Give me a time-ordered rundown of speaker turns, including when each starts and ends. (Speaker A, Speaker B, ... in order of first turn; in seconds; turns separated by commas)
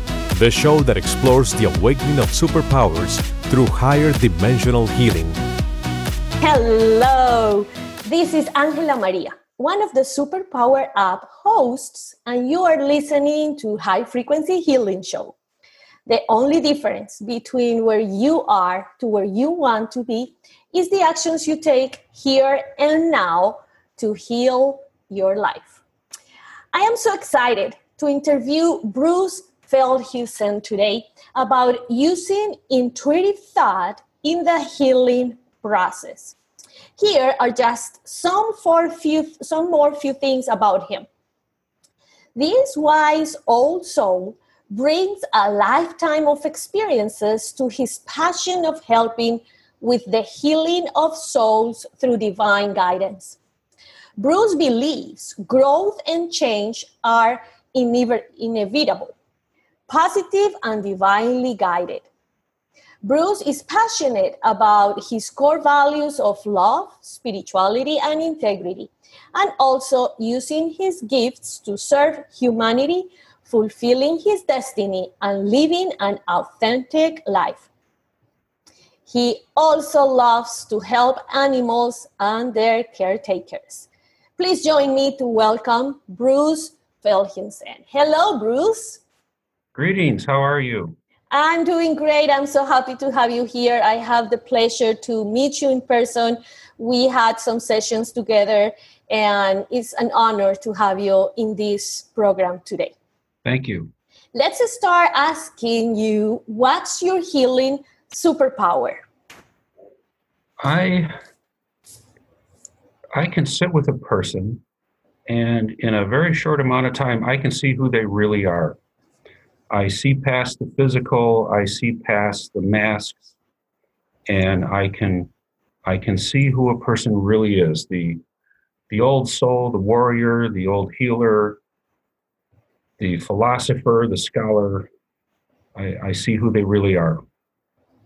Speaker A: 0.3-5.4, Speaker B: 6.4-15.3, Speaker B: 16.1-25.8, Speaker B: 26.7-36.3, Speaker B: 37.0-41.1, Speaker B: 42.3-53.4, Speaker B: 54.2-59.1, Speaker B: 59.9-62.0, Speaker B: 63.0-77.7, Speaker B: 79.1-89.0, Speaker C: 89.7-91.0, Speaker B: 91.3-102.9, Speaker C: 103.4-103.9, Speaker B: 104.3-109.0, Speaker C: 110.6-111.1, Speaker C: 113.1-114.6, Speaker C: 115.3-118.8, Speaker C: 119.7-123.3, Speaker C: 124.3-125.3, Speaker C: 125.8-128.2, Speaker C: 128.9-131.6, Speaker C: 133.0-134.9, Speaker C: 135.7-137.2